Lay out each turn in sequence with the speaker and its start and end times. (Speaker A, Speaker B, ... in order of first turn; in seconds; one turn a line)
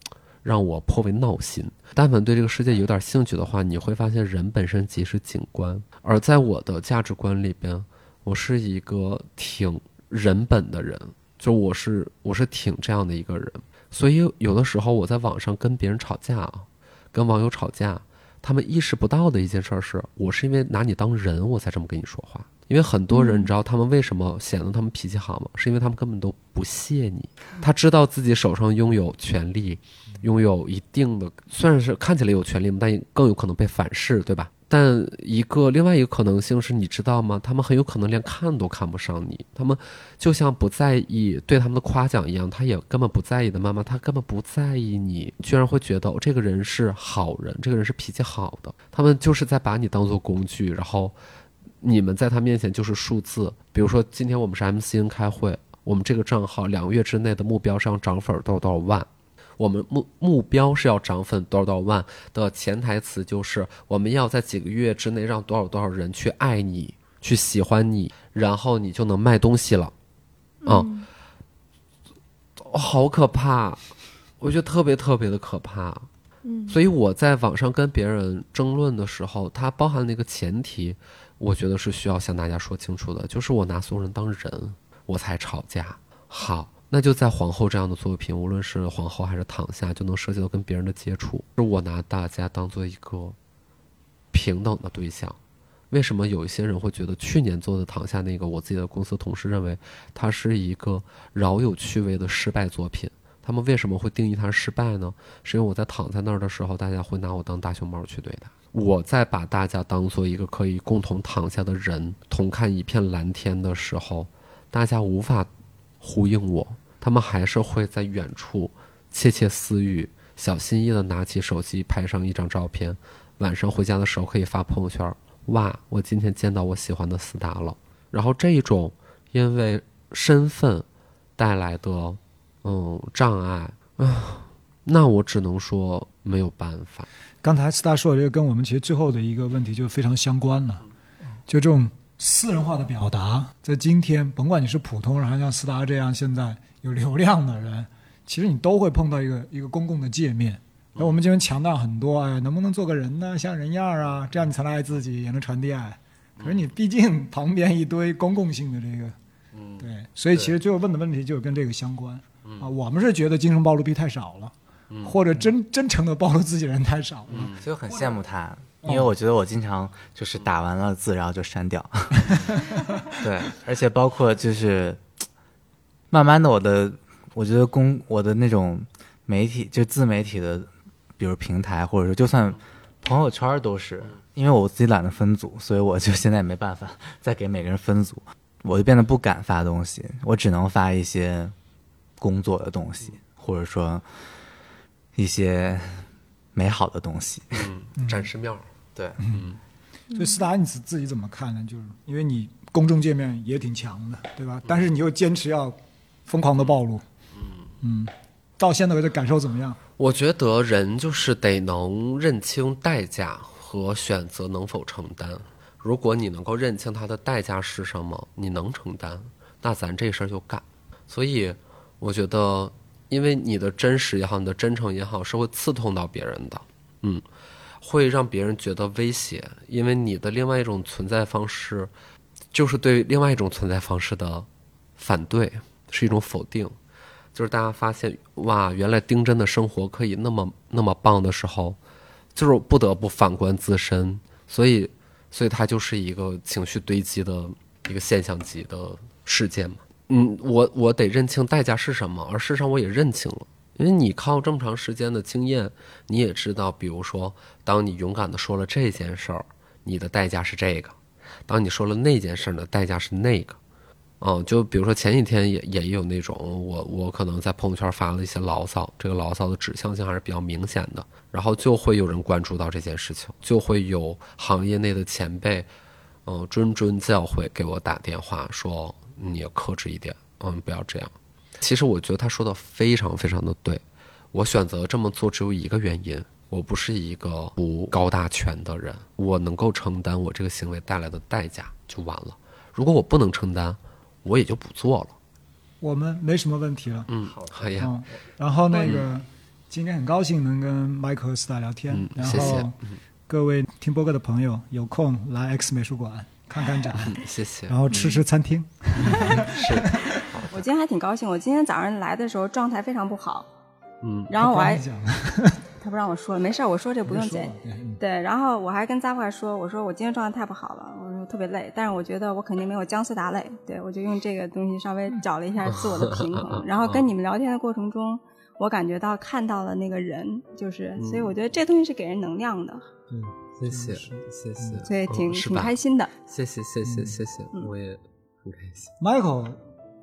Speaker A: 0.4-51.2
Speaker B: 23.1-23.5
Speaker A: 51.8-69.9
Speaker B: 70.6-71.1
Speaker A: 70.7-70.9
Speaker A: 72.6-73.9
Speaker A: 74.4-76.1
Speaker B: 76.5-76.8
Speaker A: 76.7-93.4
Speaker A: 94.3-95.4
Speaker A: 95.9-115.5
Speaker A: 116.0-130.9
Speaker A: 131.4-137.1
Speaker C: 137.4-140.9
Speaker C: 141.5-159.2
Speaker A: 159.5-160.6
Speaker C: 159.8-168.2
Speaker A: 162.4-162.7
Speaker A: 164.9-165.2
Speaker A: 167.3-167.6
Speaker D: 167.4-172.5
Speaker D: 173.1-175.0
Speaker D: 176.1-191.6
Speaker D: 192.2-194.1
Speaker D: 195.2-197.7
Speaker A: 197.5-199.6
Speaker C: 198.0-198.3
Speaker C: 200.1-207.1
Speaker C: 207.8-209.8
Speaker A: 210.0-227.2
Speaker A: 227.8-231.9
Speaker A: 232.5-236.8
Speaker A: 237.3-241.8
Speaker A: 242.3-263.6
Speaker A: 264.2-275.7
Speaker A: 276.3-295.2
Speaker C: 295.8-297.1
Speaker A: 297.1-298.0
Speaker C: 297.7-310.4
Speaker B: 298.7-299.1
Speaker A: 298.8-299.1
Speaker A: 301.9-303.0
Speaker A: 307.0-308.2
Speaker A: 309.0-310.6
Speaker B: 309.1-309.5
Speaker B: 310.1-313.5
Speaker A: 314.0-314.3
Speaker B: 314.3-314.8
Speaker C: 314.4-315.7
Speaker B: 315.8-332.9
Speaker C: 317.1-318.0
Speaker A: 325.6-327.1
Speaker A: 331.0-331.3
Speaker C: 333.1-334.9
Speaker A: 333.6-335.8
Speaker B: 334.9-336.1
Speaker A: 336.3-338.9
Speaker C: 336.9-337.2
Speaker C: 339.0-339.6